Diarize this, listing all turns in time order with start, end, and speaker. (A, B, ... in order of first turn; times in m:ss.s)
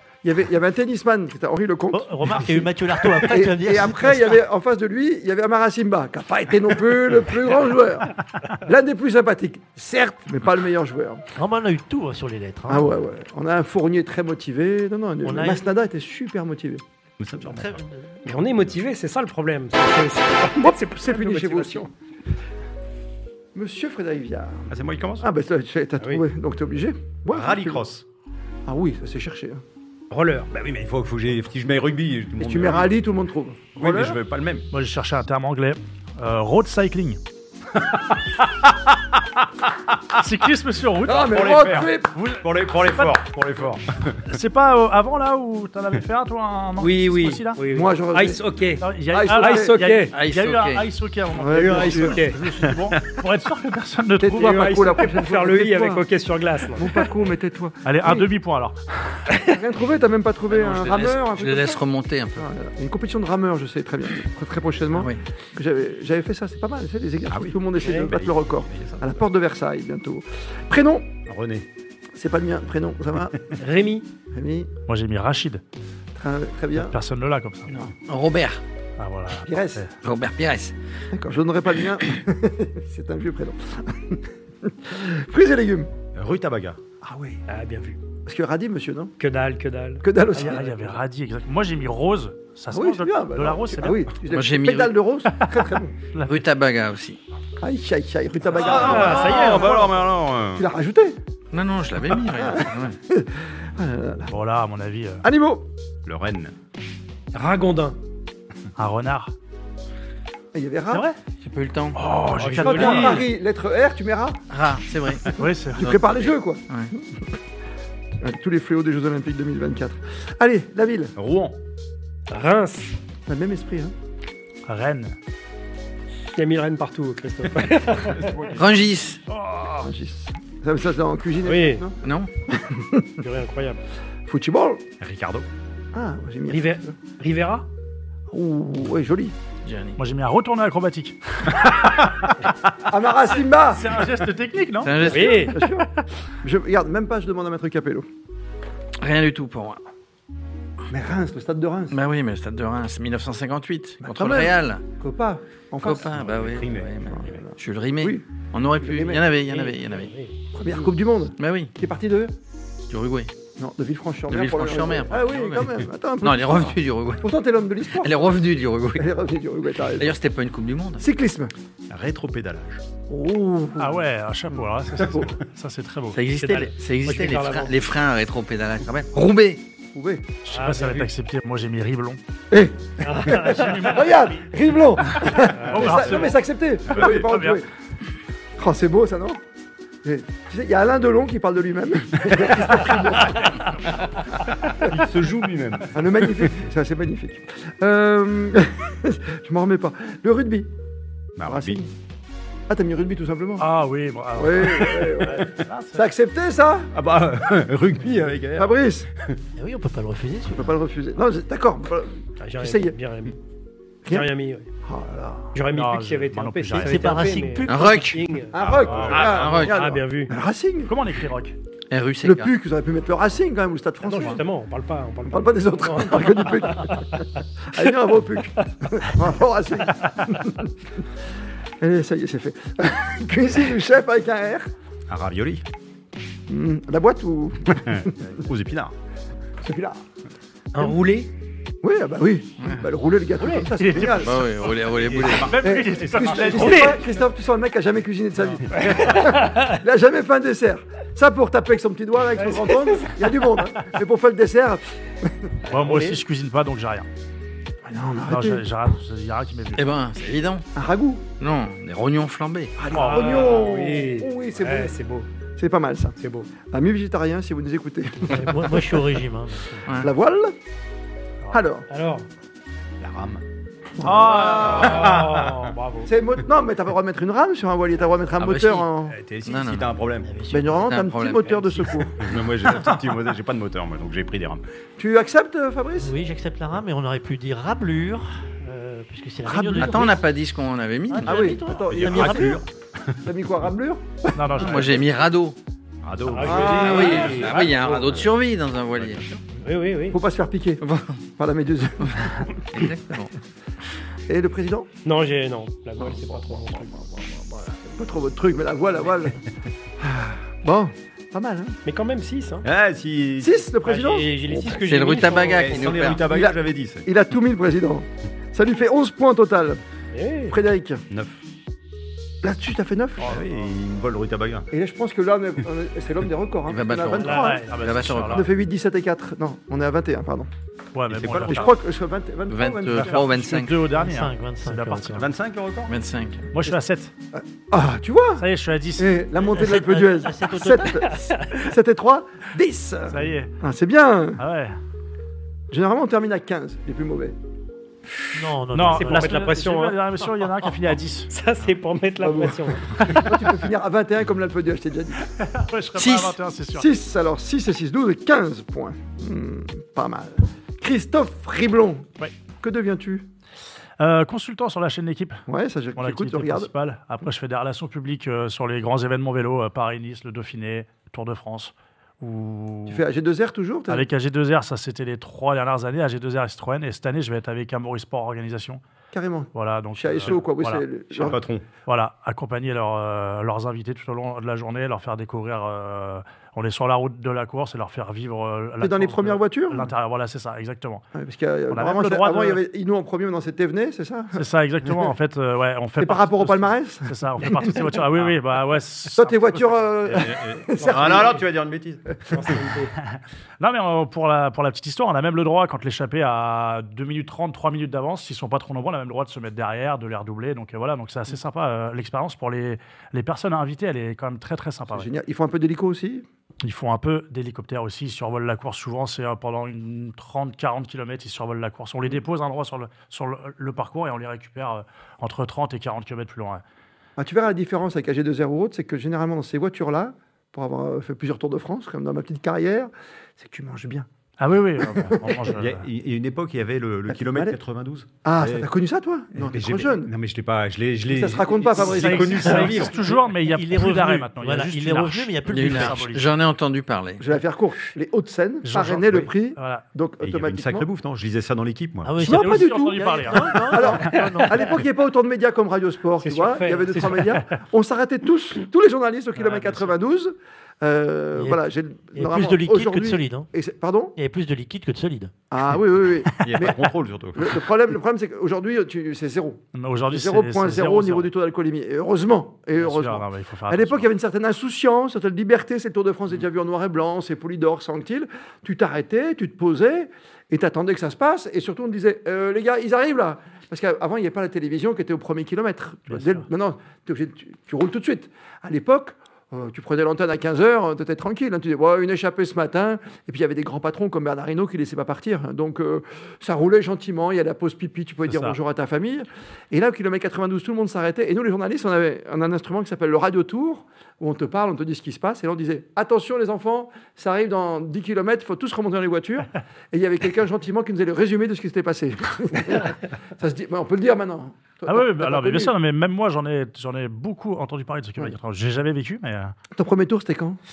0:00.2-0:11.2 A
0:01.9-0:04.4 B
0:11.4-0:13.0 B
0:12.7-0:16.8 A
0:15.2-0:15.6 B
0:17.2-0:17.8 C
0:17.3-0:18.2 B
0:18.2-0:21.9 D
0:18.4-0:18.8 C
0:20.6-0:21.9 A
0:23.6-0:27.8 A
0:24.7-0:25.2 C
0:27.3-0:28.0 C
0:28.7-0:29.6 A
0:30.1-0:30.5 D
0:30.5-0:32.9 C
0:32.4-0:34.2 A
0:33.8-0:34.7 C
0:34.7-0:37.2 E
0:37.8-0:40.2 C
0:40.2-0:41.4 E
0:41.0-0:42.1 A
0:41.2-0:44.3 C
0:42.1-0:43.2 E
0:44.3-0:47.6 E
0:46.8-0:50.1 D
0:47.7-0:48.4 A
0:48.8-0:54.7 E
0:49.1-0:49.9 A
0:50.1-0:50.9 F
0:51.3-0:52.3 A
0:51.5-0:52.4 D
0:52.6-0:53.2 C
0:54.2-0:56.1 A
0:54.4-0:57.1 D
0:56.7-0:58.3 A
0:57.8-0:59.3 E
0:59.4-1:01.8 A
1:00.5-1:02.5 F
1:02.4-1:11.2 A
1:05.0-1:05.2 F
1:07.3-1:09.1 C
1:07.8-1:08.1 D
1:11.3-1:11.7 C
1:12.1-1:13.5 A
1:13.6-1:14.1 D
1:14.3-1:14.7 A
1:14.9-1:15.6 E
1:16.2-1:17.0 A
1:16.8-1:17.9 E
1:17.7-1:18.6 F
1:19.0-1:19.9 E
1:19.4-1:19.8 A
1:20.0-1:20.7 F
1:21.1-1:25.9 A
1:26.1-1:26.8 C
1:27.0-1:27.4 A
1:27.5-1:28.0 D
1:28.3-1:29.1 A
1:29.2-1:30.9 D
1:30.0-1:30.7 A
1:30.3-1:34.1 E
1:32.7-1:36.0 A
1:34.3-1:35.0 F
1:36.2-1:36.4 E
1:36.2-1:37.2 F
1:37.6-1:41.2 A
1:38.5-1:40.7 C
1:38.6-1:40.0 D
1:41.5-1:43.0 F
1:42.2-1:44.4 A
1:44.3-1:45.2 E
1:45.2-1:45.7 A
1:46.0-1:46.5 C
1:47.3-1:48.0 D
1:48.8-1:49.3 E
1:50.5-1:51.1 A
1:50.9-1:51.2 E
1:51.4-1:52.0 F
1:52.0-1:53.3 E
1:52.4-1:53.2 D
1:52.6-1:54.4 A
1:54.5-1:56.9 F
1:55.3-1:56.0 E
1:55.4-1:57.3 A
1:58.2-2:01.2 A
2:01.2-2:01.6 C
2:02.3-2:03.0 D
2:03.3-2:03.9 A
2:04.7-2:05.2 E
2:06.3-2:08.5 D
2:07.6-2:08.6 C
2:08.5-2:09.2 F
2:09.3-2:09.7 E
2:09.8-2:12.0 A
2:11.4-2:11.8 D
2:12.0-2:12.3 F
2:12.5-2:13.2 A
2:13.2-2:13.8 D
2:14.3-2:14.8 A
2:15.0-2:15.5 C
2:15.9-2:16.9 A
2:16.5-2:17.7 D
2:18.3-2:19.4 A
2:19.6-2:20.0 F
2:20.0-2:22.3 E
2:22.8-2:24.1 A
2:23.6-2:25.2 E
2:24.8-2:25.6 F
2:25.0-2:25.9 A
2:25.1-2:25.6 D
2:25.7-2:26.0 E
2:26.4-2:28.1 A
2:29.0-2:29.8 F
2:30.9-2:32.0 A
2:31.9-2:34.8 F
2:34.0-2:36.2 A
2:35.8-2:40.1 F
2:36.2-2:37.4 C
2:37.1-2:39.3 A
2:39.5-2:40.4 D
2:40.5-2:42.4 A
2:41.4-2:41.7 F
2:42.9-2:43.3 F
2:43.6-2:48.2 A
2:44.3-2:47.3 F
2:47.9-2:49.1 F
2:49.0-2:50.2 A
2:50.0-2:51.1 F
2:51.0-2:51.5 A
2:51.9-2:52.8 C
2:53.1-2:55.3 A
2:53.8-2:56.7 E
2:56.1-2:59.6 F
2:57.0-2:57.8 D
2:59.9-3:00.4 A
3:00.4-3:02.2 E
3:00.5-3:01.1 D
3:02.5-3:07.7 A
3:03.0-3:04.0 D
3:03.3-3:04.3 E
3:05.1-3:06.4 E
3:05.5-3:06.2 D
3:06.9-3:07.2 C
3:07.0-3:07.6 E
3:08.6-3:09.4 A
3:10.0-3:13.6 A
3:14.8-3:16.5 C
3:15.9-3:20.7 A
3:21.4-3:21.8 C
3:21.4-3:21.9 A
3:22.7-3:23.7 A
3:23.6-3:26.0 E
3:24.4-3:26.9 A
3:26.9-3:29.4 C
3:28.6-3:29.1 A
3:29.6-3:30.8 B
3:30.6-3:33.0 A
3:32.4-3:33.4 D
3:34.1-3:34.7 D
3:34.8-3:35.6 A
3:35.5-3:40.3 D
3:35.7-3:37.2 E
3:36.8-3:38.2 B
3:37.7-3:38.3 F
3:38.5-3:41.0 A
3:38.6-3:39.4 C
3:38.8-3:39.4 E
3:39.0-3:39.9 F
3:40.9-3:41.6 E
3:41.9-3:42.5 F
3:42.2-3:44.4 A
3:44.0-3:47.1 D
3:45.3-3:51.2 A
3:51.8-3:54.7 A
3:55.1-3:55.6 C
3:56.5-3:58.3 A
3:57.8-3:58.9 C
3:59.6-4:00.0 A
4:00.7-4:01.3 D
4:01.8-4:04.4 A
4:03.4-4:03.7 D
4:03.7-4:04.4 E
4:04.0-4:04.3 C
4:04.0-4:05.6 F
4:04.8-4:06.9 C
4:05.3-4:07.0 E
4:05.6-4:15.6 A
4:06.6-4:06.9 D
4:08.7-4:09.7 D
4:12.4-4:13.2 D
4:15.7-4:17.1 E
4:15.7-4:16.2 D
4:17.9-4:18.6 A
4:18.2-4:19.9 E
4:19.8-4:20.6 F
4:20.8-4:21.2 A
4:21.4-4:22.8 F
4:22.8-4:24.9 A
4:22.9-4:25.3 D
4:25.6-4:29.0 A
4:26.2-4:26.5 D
4:28.3-4:29.9 B
4:29.9-4:30.1 F
4:29.9-4:30.5 A
4:31.5-4:31.9 A
4:31.9-4:32.3 D
4:33.0-4:33.4 C
4:34.0-4:35.1 A
4:34.0-4:35.7 C
4:34.2-4:36.1 D
4:36.0-4:39.2 A
4:38.4-4:38.9 F
4:39.1-4:40.3 C
4:39.4-4:39.9 F
4:40.2-4:40.9 B
4:40.5-4:42.3 A
4:40.8-4:41.9 F
4:42.2-4:44.6 C
4:45.0-4:46.2 A
4:46.0-4:50.2 B
4:49.4-4:50.2 A
4:49.7-4:51.4 F
4:51.1-4:52.6 B
4:51.2-4:52.6 A
4:51.8-4:53.2 C
4:53.2-4:55.0 A
4:54.4-4:55.0 E
4:54.6-4:55.6 F
4:56.0-4:57.5 C
4:56.3-4:58.2 D
4:56.4-4:57.3 A
4:56.6-4:59.2 F
4:59.0-4:59.5 C
4:59.6-5:00.2 D
5:00.1-5:02.9 A
5:02.1-5:03.3 F
5:04.3-5:04.9 A
5:05.0-5:06.9 D
5:06.0-5:09.4 A
5:10.0-5:11.8 A
5:11.8-5:12.7 D
5:12.6-5:13.6 C
5:13.4-5:14.8 A
5:13.8-5:16.0 D
5:14.8-5:16.2 F
5:15.5-5:17.1 C
5:16.2-5:19.8 A
5:20.1-5:20.6 D
5:20.5-5:21.0 A
5:21.1-5:21.4 C
5:22.4-5:23.4 A
5:23.2-5:23.7 E
5:23.2-5:24.7 C
5:24.7-5:27.7 A
5:26.7-5:28.5 F
5:27.2-5:27.9 D
5:27.2-5:28.5 E
5:28.3-5:30.5 A
5:30.9-5:31.7 E
5:31.1-5:31.7 C
5:31.5-5:33.2 A
5:32.5-5:33.8 F
5:33.0-5:35.3 E
5:33.9-5:35.3 B
5:35.2-5:35.9 C
5:35.9-5:36.5 F
5:36.5-5:37.1 E
5:37.3-5:38.4 A
5:38.4-5:39.2 E
5:39.0-5:44.4 A
5:39.4-5:41.1 B
5:41.0-5:41.7 D
5:43.1-5:43.5 E
5:44.4-5:44.8 E
5:45.7-5:47.4 A
5:48.3-5:49.4 B
5:48.7-5:51.3 E
5:48.9-5:50.7 D
5:51.3-5:53.5 D
5:52.2-5:55.3 A
5:55.3-5:56.9 E
5:56.0-5:56.4 F
5:56.7-6:03.3 A
6:04.0-6:05.4 E
6:05.5-6:06.7 A
6:06.0-6:13.0 E
6:12.9-6:14.1 A
6:13.9-6:18.8 E
6:19.1-6:21.4 A
6:19.6-6:21.3 E
6:21.2-6:21.7 C
6:21.9-6:31.0 E
6:28.8-6:29.9 A
6:31.1-6:35.1 A
6:31.7-6:32.6 E
6:34.4-6:39.3 E
6:36.0-6:38.0 A
6:39.2-6:41.4 A
6:40.0-6:42.6 C
6:40.8-6:41.5 D
6:42.3-6:42.9 D
6:43.1-6:55.1 E
6:54.9-6:56.2 A
6:56.6-7:06.6 E
7:07.2-7:14.1 A
7:14.4-7:15.9 E
7:14.8-7:15.4 A
7:15.5-7:18.7 C
7:17.1-7:17.6 A
7:18.2-7:20.1 A
7:19.4-7:23.0 C
7:21.1-7:22.9 A
7:21.8-7:26.3 E
7:22.4-7:26.1 B
7:25.5-7:27.2 F
7:27.2-7:30.9 A
7:28.7-7:29.8 E
7:30.2-7:32.2 C
7:32.0-7:34.8 B
7:32.2-7:33.9 E
7:32.2-7:44.2 A
7:36.2-7:37.4 D
7:39.4-7:39.9 E
7:41.4-7:43.5 B
7:44.2-7:45.3 B
7:45.5-8:35.7 A
7:46.4-7:47.6 C
7:49.7-7:51.3 E
7:52.8-7:54.1 E
8:06.1-8:06.5 E
8:18.3-8:18.6 E
8:34.9-8:39.6 E
8:39.7-8:40.6 A